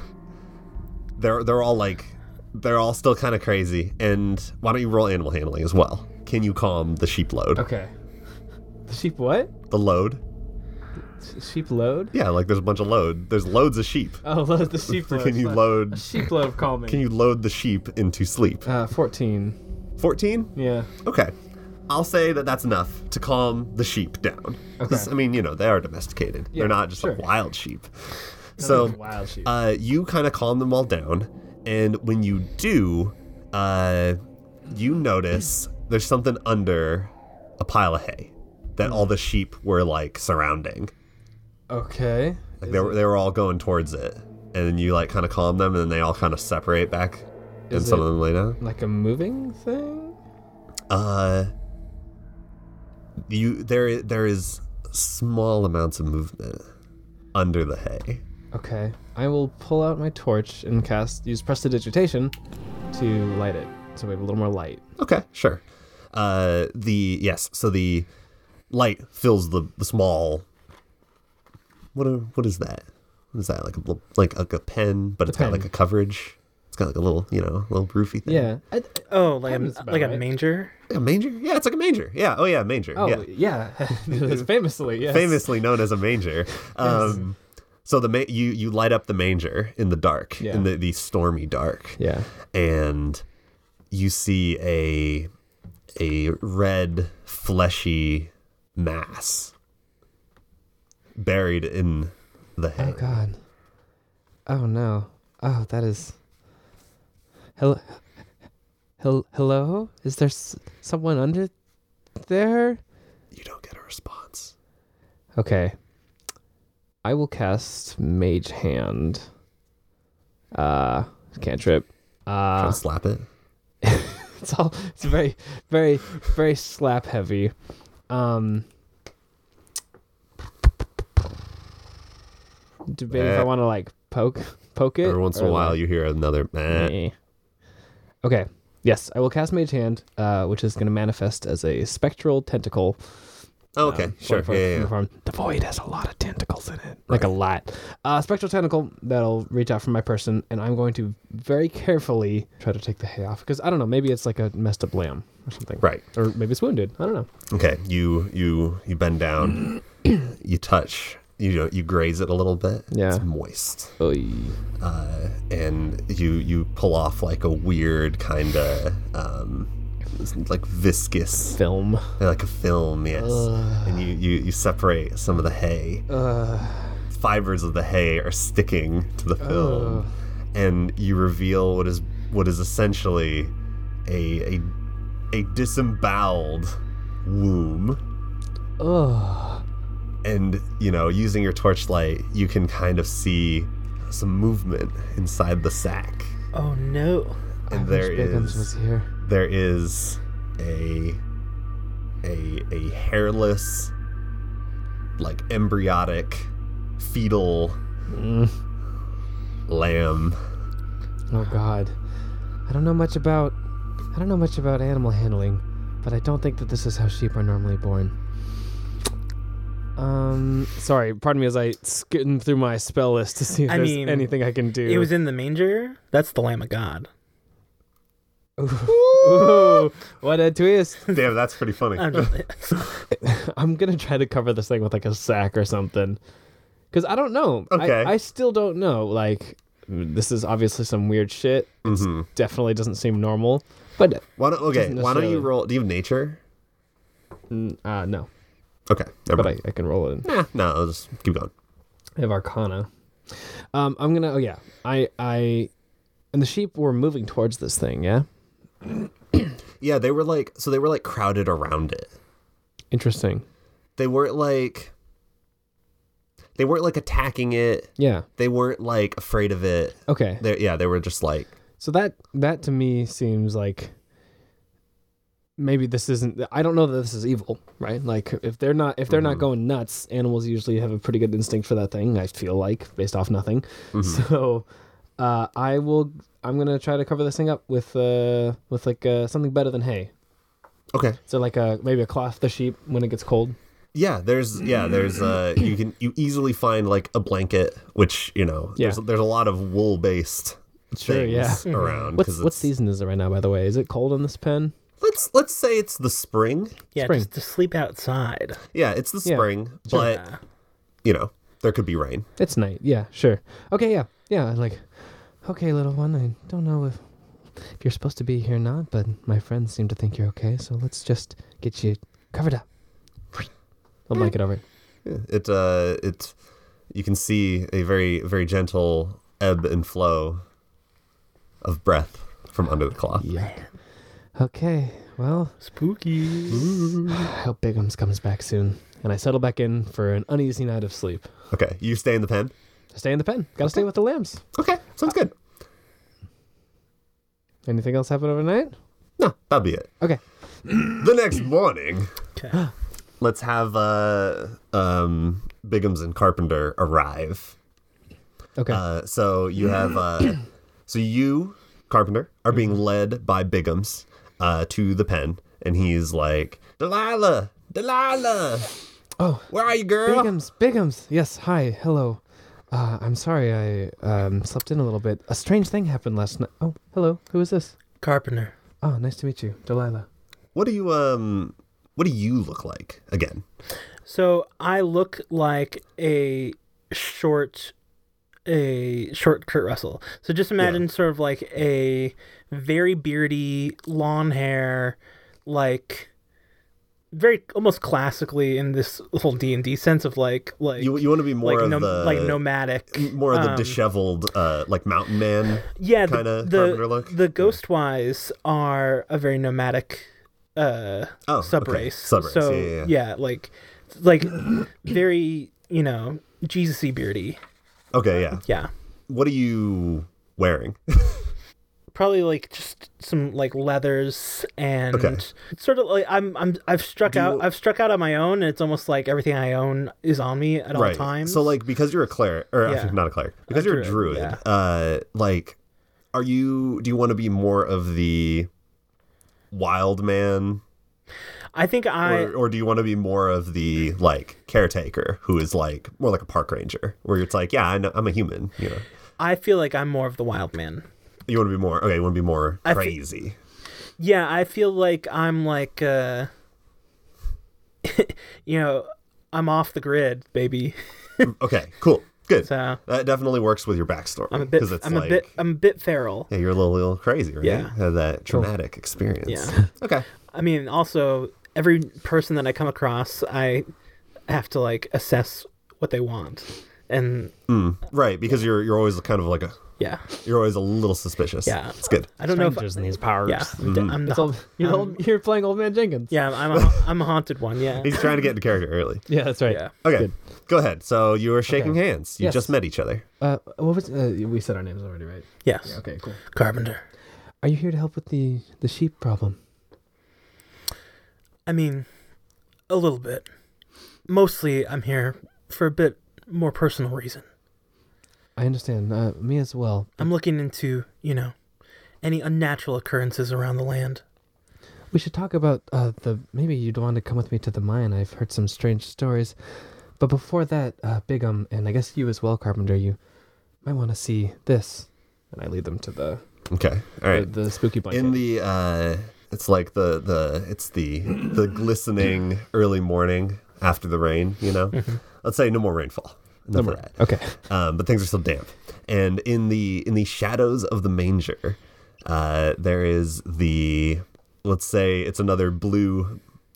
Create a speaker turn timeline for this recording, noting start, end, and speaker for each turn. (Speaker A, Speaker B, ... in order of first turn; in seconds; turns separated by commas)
Speaker A: 1.2-7.6, Speaker B: 7.6-7.9, Speaker B: 8.9-9.5, Speaker A: 9.7-10.2, Speaker B: 11.2-12.1, Speaker A: 12.1-14.2, Speaker B: 14.2-17.0, Speaker A: 14.9-16.1, Speaker A: 16.9-18.7, Speaker B: 18.7-19.6, Speaker A: 20.0-20.5, Speaker B: 20.6-20.9, Speaker A: 21.0-21.3, Speaker A: 21.9-27.9, Speaker B: 24.8-25.1, Speaker B: 26.5-27.2, Speaker B: 28.6-29.5, Speaker A: 28.6-34.2, Speaker A: 34.7-40.9, Speaker B: 41.7-43.0, Speaker A: 42.6-48.6, Speaker B: 47.7-50.2, Speaker A: 50.9-51.5, Speaker A: 53.3-56.7, Speaker A: 57.3-58.2, Speaker B: 58.5-62.3, Speaker B: 62.9-64.8, Speaker A: 65.0-68.1, Speaker A: 68.7-70.5, Speaker A: 72.0-78.5, Speaker B: 75.3-75.7, Speaker B: 78.3-80.2, Speaker C: 79.1-80.7, Speaker A: 80.9-83.2, Speaker B: 83.0-85.5, Speaker A: 84.1-84.5, Speaker A: 85.0-92.0, Speaker B: 86.8-87.2, Speaker B: 90.4-90.7, Speaker B: 92.0-92.3, Speaker A: 92.5-93.2, Speaker A: 93.9-95.3, Speaker A: 96.0-99.5, Speaker A: 101.2-103.2, Speaker B: 102.8-103.4, Speaker B: 104.5-106.2, Speaker B: 107.6-108.0, Speaker B: 109.0-111.5, Speaker B: 112.2-112.8, Speaker A: 113.3-114.5, Speaker B: 115.4-115.8, Speaker B: 117.0-119.3, Speaker B: 120.5-122.8, Speaker A: 122.6-123.3, Speaker B: 123.8-127.5, Speaker B: 128.1-128.7, Speaker B: 132.9-135.8, Speaker A: 133.1-133.5, Speaker A: 135.0-136.9, Speaker B: 136.7-137.2, Speaker B: 138.2-143.2, Speaker A: 143.8-144.9, Speaker B: 143.8-157.3, Speaker A: 157.5-163.9, Speaker B: 162.9-163.3, Speaker B: 164.0-164.6, Speaker A: 164.8-171.6, Speaker B: 171.5-172.2, Speaker A: 172.2-176.0, Speaker B: 173.1-174.1, Speaker B: 176.1-177.0, Speaker A: 177.1-183.5, Speaker B: 179.4-180.1, Speaker A: 184.1-184.7, Speaker A: 185.3-188.0, Speaker B: 188.8-189.6, Speaker A: 190.2-196.3, Speaker C: 196.5-197.4, Speaker B: 197.7-199.1, Speaker A: 197.7-201.2, Speaker A: 202.2-203.9, Speaker A: 205.2-207.8, Speaker B: 208.1-208.6, Speaker A: 209.7-210.4, Speaker B: 211.3-212.0, Speaker B: 212.7-213.6, Speaker B: 214.1-218.2, Speaker B: 220.0-225.1, Speaker C: 223.7-227.1, Speaker B: 228.6-231.1, Speaker A: 228.9-229.9, Speaker A: 231.1-232.8, Speaker C: 232.0-232.9, Speaker B: 233.1-236.2, Speaker B: 236.9-245.5, Speaker A: 237.7-238.2, Speaker A: 241.8-242.3, Speaker A: 244.4-246.4, Speaker B: 247.5-248.3, Speaker A: 248.9-249.5, Speaker B: 249.4-250.3, Speaker A: 250.2-251.5, Speaker B: 252.2-255.7, Speaker B: 256.3-258.3, Speaker A: 259.8-262.1, Speaker B: 262.9-263.4, Speaker A: 264.0-264.9, Speaker A: 266.6-271.5, Speaker B: 268.0-268.3, Speaker B: 270.1-270.4, Speaker B: 271.8-273.9, Speaker B: 275.6-284.7, Speaker A: 279.1-279.4, Speaker A: 283.9-284.2, Speaker B: 285.2-290.1, Speaker A: 290.9-291.2, Speaker B: 291.3-293.6, Speaker A: 293.9-302.7, Speaker B: 300.9-304.7, Speaker C: 301.7-302.1, Speaker A: 305.0-306.8, Speaker C: 306.9-308.6, Speaker B: 307.0-307.3, Speaker A: 308.7-310.2, Speaker B: 309.2-310.1, Speaker C: 309.9-310.4, Speaker A: 311.0-312.3, Speaker B: 312.4-322.7, Speaker B: 324.1-324.6, Speaker A: 325.1-326.4, Speaker A: 326.9-330.4, Speaker A: 331.6-333.3, Speaker B: 333.2-333.6, Speaker B: 334.4-335.6, Speaker C: 335.6-336.7, Speaker A: 336.5-337.3, Speaker B: 337.0-341.3, Speaker A: 341.5-342.5, Speaker B: 342.9-344.4, Speaker A: 344.5-345.3, Speaker B: 347.7-348.8, Speaker A: 349.2-349.9, Speaker A: 350.8-352.1, Speaker A: 353.2-357.6, Speaker B: 358.6-358.8, Speaker A: 358.7-368.8, Speaker B: 369.2-369.5, Speaker A: 369.5-370.3, Speaker B: 370.0-372.2, Speaker B: 372.7-377.7, Speaker C: 378.0-378.5, Speaker B: 378.8-380.1, Speaker A: 380.5-383.4, Speaker C: 384.1-387.7, Speaker C: 388.5-396.1, Speaker C: 397.1-403.8, Speaker A: 400.8-407.6, Speaker C: 405.8-417.4, Speaker A: 411.3-412.9, Speaker A: 417.9-418.4, Speaker C: 418.5-418.7, Speaker A: 419.1-421.3, Speaker C: 421.9-431.5, Speaker A: 424.9-425.2, Speaker A: 427.1-427.5, Speaker A: 430.7-435.6, Speaker C: 432.7-434.4, Speaker A: 436.1-438.5, Speaker A: 439.5-440.6, Speaker C: 441.5-442.3, Speaker A: 442.0-448.9, Speaker C: 449.2-450.9, Speaker A: 451.3-453.4, Speaker C: 452.6-453.0, Speaker C: 454.0-456.3, Speaker C: 457.8-461.3, Speaker A: 461.2-465.3, Speaker C: 462.4-462.8, Speaker C: 464.3-466.3, Speaker A: 466.3-470.1, Speaker C: 467.4-467.7, Speaker C: 469.3-469.6, Speaker C: 470.3-473.7, Speaker C: 474.3-477.3, Speaker A: 477.5-479.6, Speaker C: 479.8-480.1, Speaker A: 480.2-482.1, Speaker C: 481.5-485.0, Speaker B: 482.3-486.2, Speaker A: 483.6-484.0, Speaker C: 486.1-488.0, Speaker A: 486.5-486.8, Speaker A: 487.8-489.1, Speaker B: 489.1-490.1, Speaker A: 489.8-493.0, Speaker B: 491.5-492.5, Speaker B: 493.2-496.2, Speaker C: 495.4-496.8, Speaker B: 497.4-499.4, Speaker C: 501.5-501.9, Speaker C: 502.7-503.3, Speaker C: 504.1-507.3, Speaker B: 508.4-510.1, Speaker C: 510.0-511.3, Speaker C: 512.0-514.0, Speaker B: 514.9-519.4, Speaker B: 520.0-523.0, Speaker B: 523.6-526.2, Speaker A: 526.5-527.3, Speaker B: 527.1-528.2, Speaker A: 527.9-546.2, Speaker C: 534.7-535.0, Speaker B: 536.5-537.4